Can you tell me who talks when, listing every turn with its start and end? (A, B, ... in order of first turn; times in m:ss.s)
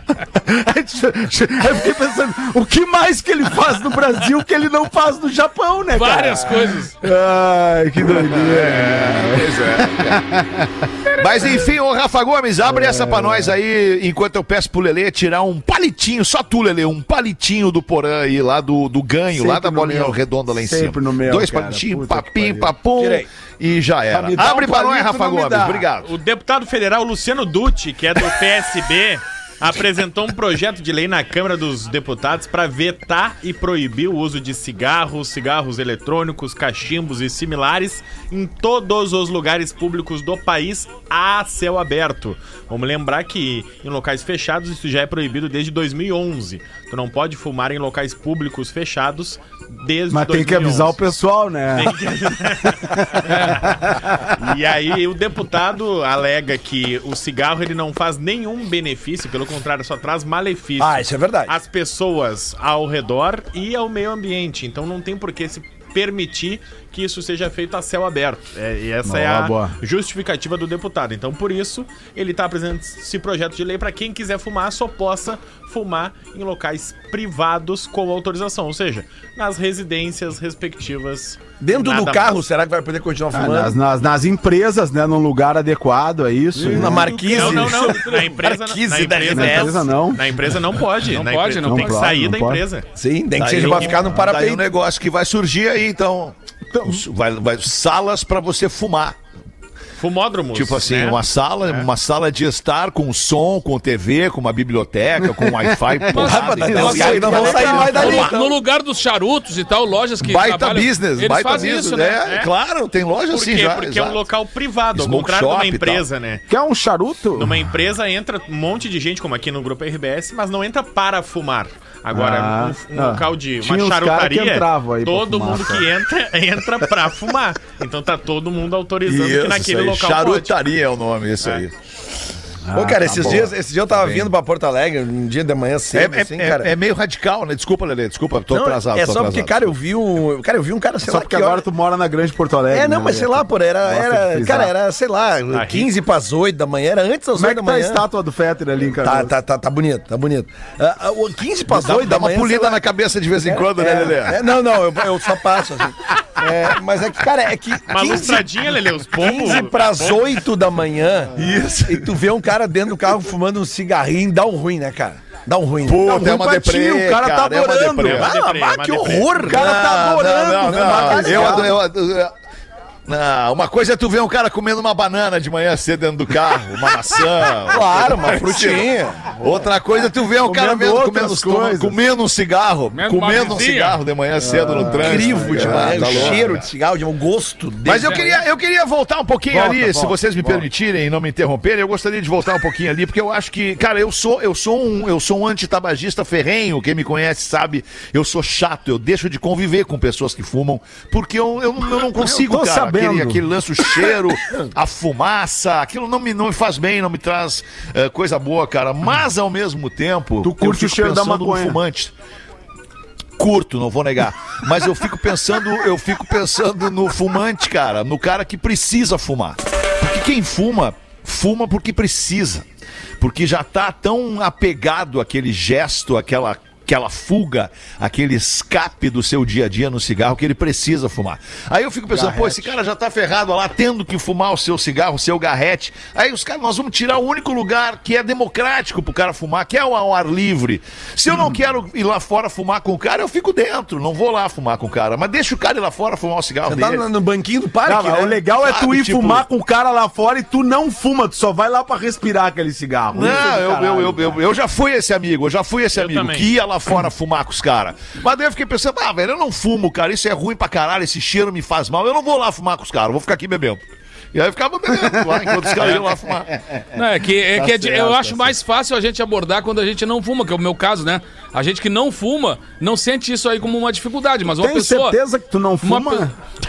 0:00.1-0:10.7 A
0:05.9-0:07.0 B
0:08.0-0:10.2 C
0:11.1-0:26.1 C
0:12.6-0:13.5 A
0:19.3-0:22.7 A
0:23.0-0:23.3 D
0:24.1-0:25.8 A
0:26.0-0:51.0 E
0:50.1-0:51.9 A
0:51.7-1:22.4 E
0:52.8-0:54.3 A
1:00.8-1:01.5 D
1:09.0-1:09.7 A
1:21.6-1:23.8 D
1:23.3-1:27.7 A
1:26.6-1:29.9 D
1:26.9-1:27.6 B
1:27.0-1:32.9 E
1:29.3-1:30.3 A
1:31.1-1:32.1 B
1:31.6-1:32.6 A
1:33.0-1:34.6 D
1:33.4-1:39.2 C
1:36.7-1:37.0 A
1:40.0-1:41.9 E
1:40.5-1:48.3 C
1:45.3-1:48.3 A
1:46.1-1:48.6 D
1:46.2-1:52.2 B
1:50.2-1:54.3 C
1:52.2-1:52.5 E
1:53.3-1:56.4 E
1:54.9-1:56.0 C
1:56.5-1:57.6 A
1:57.4-2:10.6 E
2:02.1-2:05.9 A
2:09.0-2:11.7 C
2:12.7-2:13.5 A
2:12.7-2:16.7 D
2:13.2-2:14.3 C
2:15.9-2:19.7 C
2:18.5-2:21.6 D
2:21.0-2:24.7 A
2:22.7-2:28.0 D
2:25.5-2:25.9 E
2:27.4-2:29.3 A
2:29.0-2:32.8 D
2:31.7-2:34.5 C
2:33.4-2:38.5 D
2:37.9-2:40.4 E
2:39.2-2:46.1 D
2:41.4-2:42.2 C
2:45.8-2:48.3 C
2:46.0-2:48.2 A
2:48.0-2:49.6 E
2:48.1-2:51.8 D
2:49.4-2:51.8 A
2:49.4-2:52.3 C
2:53.1-3:06.7 C
2:57.7-2:59.3 D
3:00.4-3:02.0 A
3:02.9-3:04.0 B
3:04.4-3:06.4 A
3:04.9-3:08.4 D
3:07.8-3:32.1 C
3:09.5-3:10.6 A
3:22.1-3:23.5 A
3:30.4-3:31.8 A
3:33.4-3:42.6 C
3:43.2-4:07.1 C
3:52.1-3:52.8 A
4:06.6-4:08.4 D
4:07.8-4:14.4 A
4:08.6-4:09.4 C
4:13.1-4:26.6 C
4:15.9-4:16.5 E
4:26.9-4:35.2 B
4:27.6-4:28.3 C
4:27.7-4:28.4 A
4:34.6-4:36.3 A
4:35.8-4:36.3 B